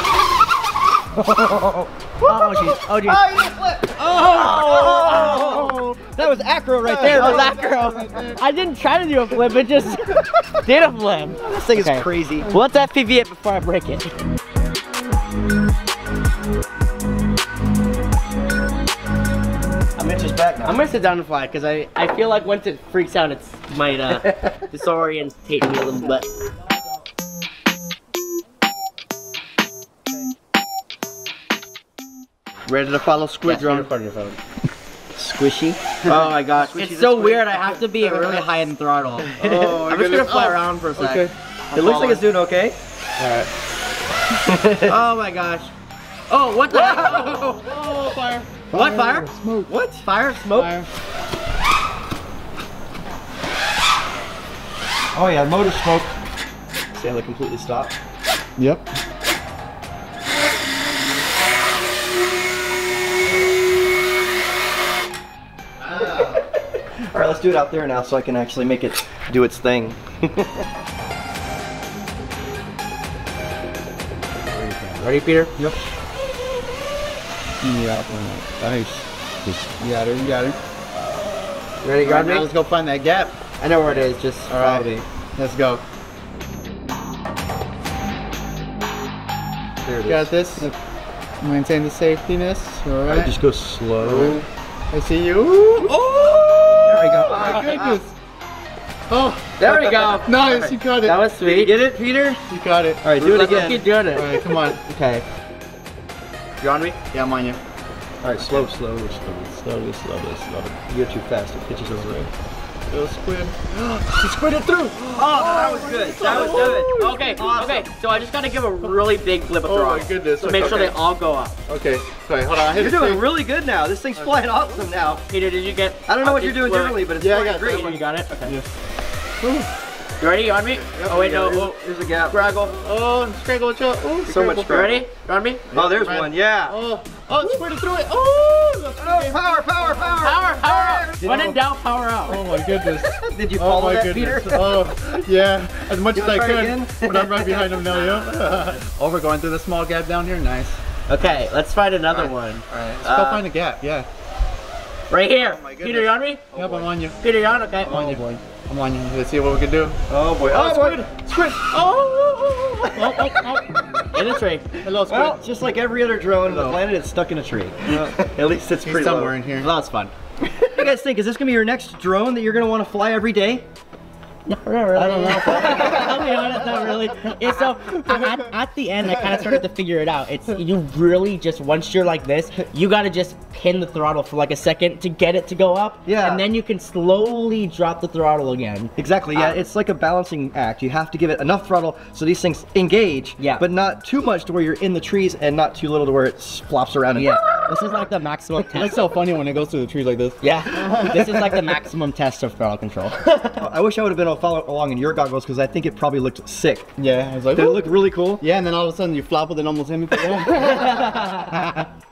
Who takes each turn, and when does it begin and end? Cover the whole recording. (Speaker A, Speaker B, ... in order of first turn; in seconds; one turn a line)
Speaker A: 1.1-7.5
Speaker B: 2.2-3.2
Speaker B: 4.0-5.9
Speaker C: 6.9-8.2
Speaker B: 7.0-14.1
Speaker A: 11.4-12.5
Speaker A: 20.0-20.8
Speaker B: 20.6-26.3
Speaker C: 32.7-33.9
Speaker B: 33.4-34.4
Speaker A: 35.2-37.8
Speaker B: 36.0-42.2
Speaker C: 36.1-36.3
Speaker C: 38.0-38.5
Speaker C: 39.4-41.3
Speaker A: 39.4-39.7
Speaker A: 41.7-42.8
Speaker C: 43.2-43.5
Speaker A: 44.4-44.9
Speaker B: 44.8-45.7
Speaker B: 46.3-48.0
Speaker C: 46.7-49.7
Speaker B: 48.7-49.3
Speaker A: 49.7-50.1
Speaker B: 50.0-50.7
Speaker C: 50.5-50.9
Speaker A: 55.1-56.2
Speaker A: 56.9-58.0
Speaker C: 58.6-58.8
Speaker A: 65.9-66.4
Speaker A: 67.0-70.6
Speaker C: 74.5-75.0
Speaker B: 75.0-75.5
Speaker C: 77.6-80.6
Speaker B: 81.8-82.5
Speaker C: 82.0-83.3
Speaker B: 83.6-85.0
Speaker C: 84.5-85.8
Speaker A: 89.8-90.2
Speaker C: 90.0-90.7
Speaker C: 91.4-93.3
Speaker A: 93.1-94.4
Speaker C: 94.0-98.1
Speaker A: 96.8-98.0
Speaker C: 99.1-101.2
Speaker B: 99.6-100.4
Speaker A: 99.6-100.7
Speaker B: 101.0-101.9
Speaker A: 101.4-102.4
Speaker C: 102.5-104.8
Speaker A: 103.0-103.8
Speaker B: 103.2-104.3
Speaker B: 104.8-105.2
Speaker B: 106.6-107.0
Speaker C: 107.1-107.6
Speaker A: 108.2-109.4
Speaker B: 109.8-110.5
Speaker A: 110.9-112.3
Speaker B: 112.0-112.2
Speaker C: 112.9-117.5
Speaker A: 115.1-117.9
Speaker B: 116.2-121.6
Speaker C: 119.6-121.0
Speaker A: 120.5-120.9
Speaker C: 121.7-123.2
Speaker A: 122.7-125.2
Speaker B: 125.3-127.0
Speaker A: 126.0-128.0
Speaker C: 127.2-128.7
Speaker B: 127.6-128.6
Speaker C: 129.4-129.7
Speaker B: 130.2-131.8
Speaker A: 131.0-132.4
Speaker C: 132.3-134.8
Speaker A: 134.2-135.0
Speaker B: 134.7-135.7
Speaker C: 135.7-141.1
Speaker A: 135.7-136.8
Speaker A: 139.0-141.6
Speaker B: 140.2-142.4
Speaker C: 142.2-150.8
Speaker A: 142.4-145.2
Speaker A: 146.0-148.8
Speaker B: 151.1-153.4
Speaker C: 152.1-154.1
Speaker B: 155.1-156.4
Speaker C: 155.4-157.2
Speaker A: 156.5-156.8
Speaker B: 157.2-158.2
Speaker C: 157.8-160.0
Speaker A: 160.1-161.9
Speaker B: 160.5-161.0
Speaker C: 162.2-162.8
Speaker A: 162.4-163.1
Speaker B: 162.8-164.7
Speaker C: 164.8-165.4
Speaker A: 165.0-169.4
Speaker C: 166.5-166.8
Speaker C: 168.8-169.7
Speaker B: 169.6-170.1
Speaker A: 170.4-173.7
Speaker B: 174.5-189.7
Speaker A: 175.0-176.3
Speaker A: 186.1-186.4
Speaker A: 189.0-197.4
Speaker B: 193.4-193.7
Speaker B: 197.2-198.9
Speaker C: 198.7-201.4
Speaker B: 200.4-203.7
Speaker A: 203.6-206.9
Speaker C: 207.0-207.8
Speaker A: 207.5-208.4
Speaker C: 208.4-211.9
Speaker B: 210.5-211.5